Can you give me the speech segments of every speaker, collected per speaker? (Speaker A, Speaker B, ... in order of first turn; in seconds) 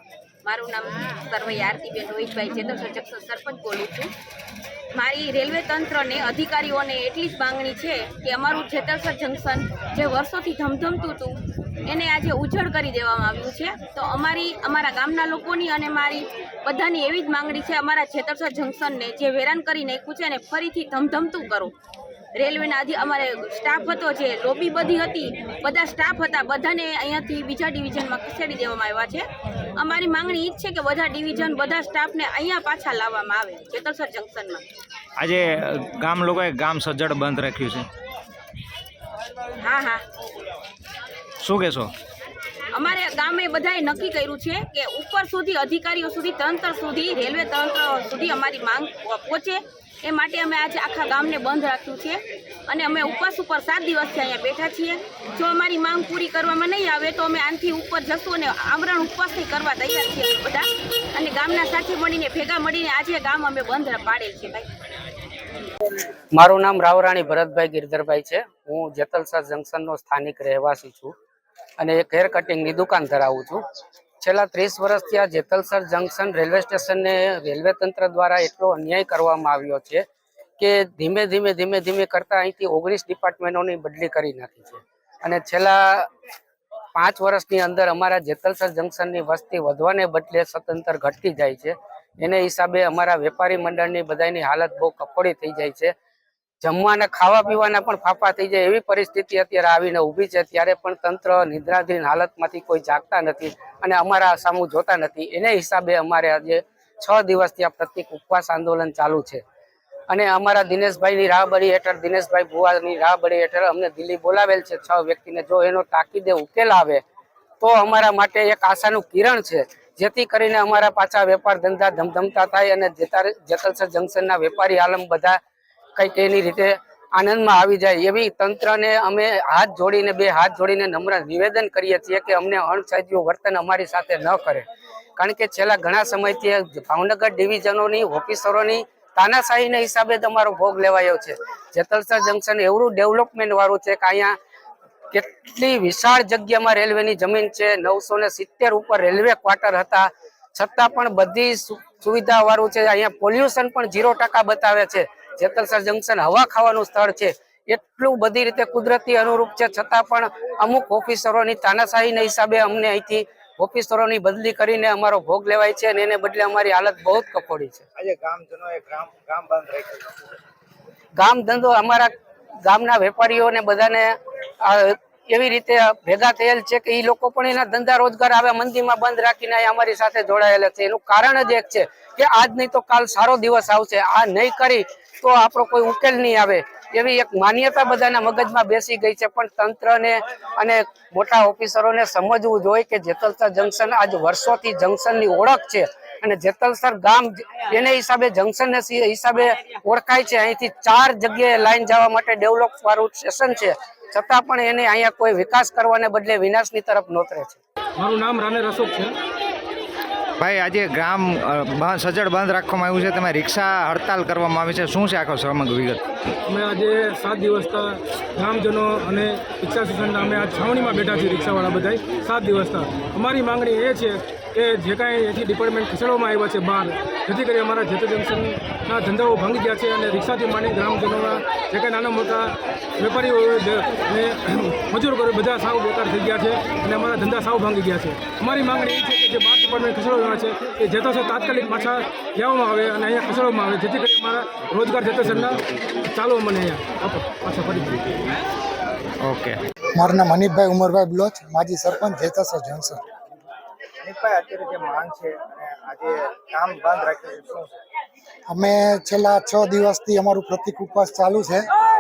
Speaker A: 0.5-4.1, 5.0-11.4, 11.9-21.7, 22.4-34.6, 39.6-40.0, 42.7-64.7
Speaker B: 35.2-37.9, 41.4-41.9, 210.4-216.0, 249.2-249.6
Speaker C: 66.3-71.1, 71.8-73.6, 74.2-80.0, 80.6-86.1, 87.0-95.9, 96.6-109.4, 110.1-117.0, 117.6-125.4, 126.0-134.7, 135.2-144.3, 145.1-167.8, 171.2-172.1, 172.6-207.6
Speaker D: 168.0-170.2, 254.0-257.7
Speaker E: 208.0-209.1, 216.5-248.2
Speaker F: 250.0-253.0, 258.5-261.7